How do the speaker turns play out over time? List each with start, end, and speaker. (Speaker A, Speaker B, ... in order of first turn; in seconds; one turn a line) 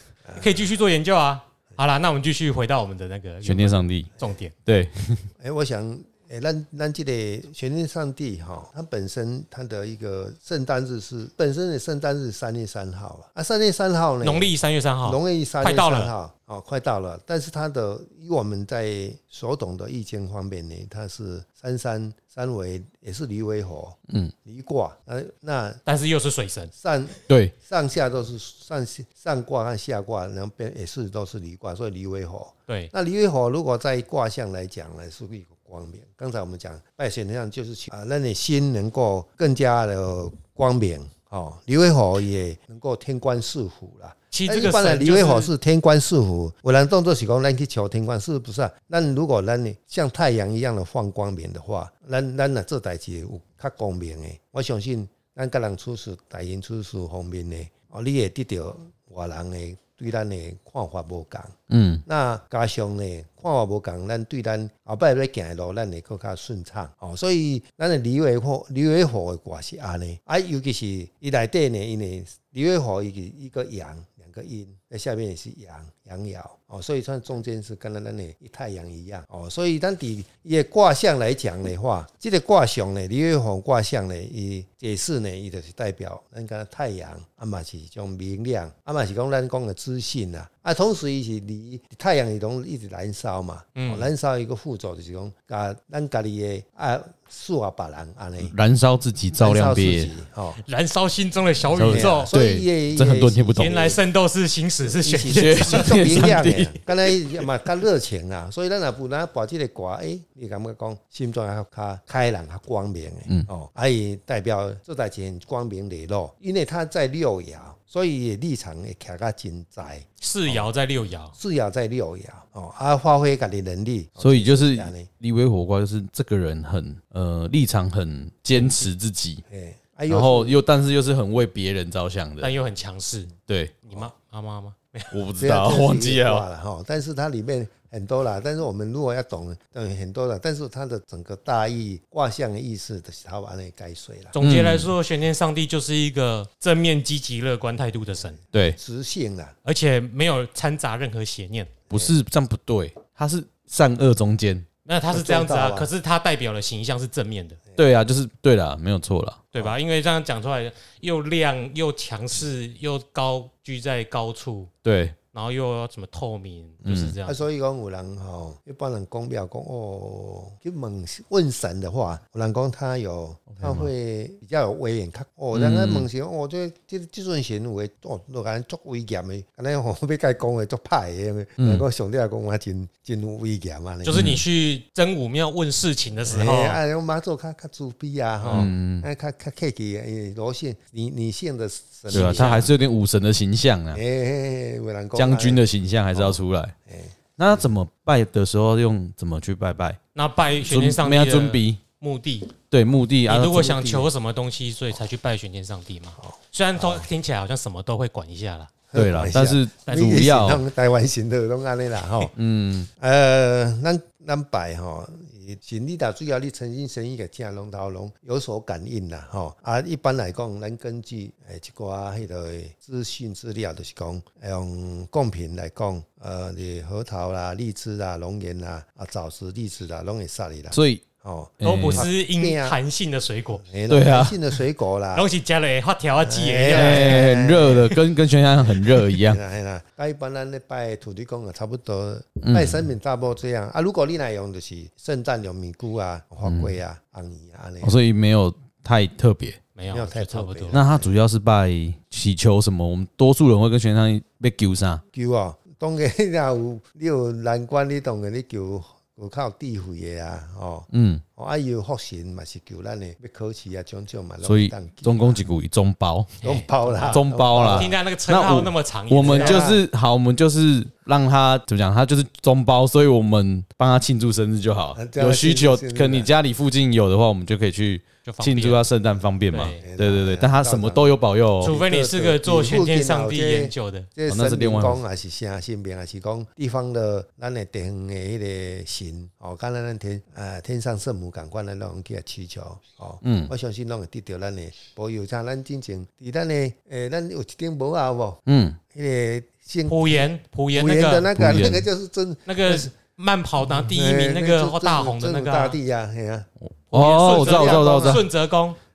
Speaker A: 0.3-0.5
Speaker B: 0.4-4.5
Speaker C: 3.4-4.1
Speaker C: 4.7-5.3
Speaker A: 5.4-14.5
Speaker B: 14.2-16.1
Speaker A: 15.0-25.8
Speaker B: 25.9-26.7
Speaker A: 26.8-98.5
Speaker B: 44.3-45.5
Speaker C: 61.7-62.0
Speaker B: 93.8-94.1
Speaker C: 98.4-100.1
Speaker A: 99.4-100.6
Speaker B: 100.6-102.3
Speaker C: 101.8-103.9
Speaker A: 101.9-104.0
Speaker B: 103.6-105.9
Speaker A: 104.9-120.7
Speaker C: 105.3-107.2
Speaker B: 120.2-121.3
Speaker A: 121.3-125.1
Speaker C: 124.2-129.4
Speaker B: 128.5-128.9
Speaker A: 129.5-130.6
Speaker C: 130.1-132.5
Speaker B: 132.4-133.3
Speaker C: 133.5-133.8
Speaker B: 133.8-135.1
Speaker C: 135.1-136.4
Speaker A: 135.4-144.4
Speaker B: 144.3-148.4
Speaker C: 144.4-144.9
Speaker A: 148.7-149.6
Speaker B: 149.7-151.7
Speaker C: 151.9-154.7
Speaker B: 154.8-157.6
Speaker A: 155.1-155.9
Speaker C: 157.8-159.4
Speaker B: 159.5-164.7
Speaker C: 164.8-165.2
Speaker B: 165.3-167.4
Speaker C: 166.8-167.1
Speaker A: 167.2-184.3
Speaker C: 173.5-173.9
Speaker C: 175.5-176.1
Speaker C: 181.6-181.8
Speaker B: 184.0-186.8
Speaker C: 184.1-184.4
Speaker A: 186.3-192.7
Speaker B: 188.4-188.7
Speaker C: 188.5-189.1
Speaker B: 192.1-192.7
Speaker C: 192.1-194.0
Speaker A: 193.9-195.6
Speaker C: 195.2-196.7
Speaker A: 196.1-197.7
Speaker C: 197.4-200.0
Speaker B: 200.1-202.5
Speaker C: 200.7-201.8
Speaker C: 202.7-204.1
Speaker B: 203.3-208.7
Speaker A: 206.2-207.1
Speaker A: 208.9-212.3
Speaker C: 208.9-210.6
Speaker B: 209.8-210.2
Speaker C: 212.4-212.9
Speaker A: 213.0-232.8
Speaker C: 230.7-231.0
Speaker C: 231.6-232.1
Speaker B: 231.6-233.6
Speaker A: 233.6-235.3
Speaker C: 233.9-234.4
Speaker B: 235.1-237.6
Speaker A: 236.2-238.0
Speaker C: 236.7-239.4
Speaker A: 238.6-248.0
Speaker C: 242.4-242.9
Speaker C: 246.4-246.8
Speaker C: 247.8-249.6
Speaker B: 249.8-250.8
Speaker A: 249.9-251.1
Speaker C: 250.7-255.0
Speaker A: 255.1-265.5
Speaker C: 260.9-261.2
Speaker C: 264.4-266.4
Speaker B: 266.4-269.6
Speaker A: 266.4-267.9
Speaker C: 267.1-281.8
Speaker A: 269.2-269.9
Speaker A: 274.9-276.3
Speaker B: 278.2-278.9
Speaker B: 279.5-279.8
Speaker A: 279.5-298.4
Speaker B: 281.6-284.1
Speaker C: 284.3-285.0
Speaker C: 293.2-293.5
Speaker C: 298.5-298.8
Speaker A: 298.9-302.9
Speaker B: 299.9-301.3
Speaker C: 301.4-301.9
Speaker B: 302.5-305.8
Speaker A: 303.7-306.5
Speaker C: 306.6-308.3
Speaker B: 306.9-308.8
Speaker A: 307.1-308.3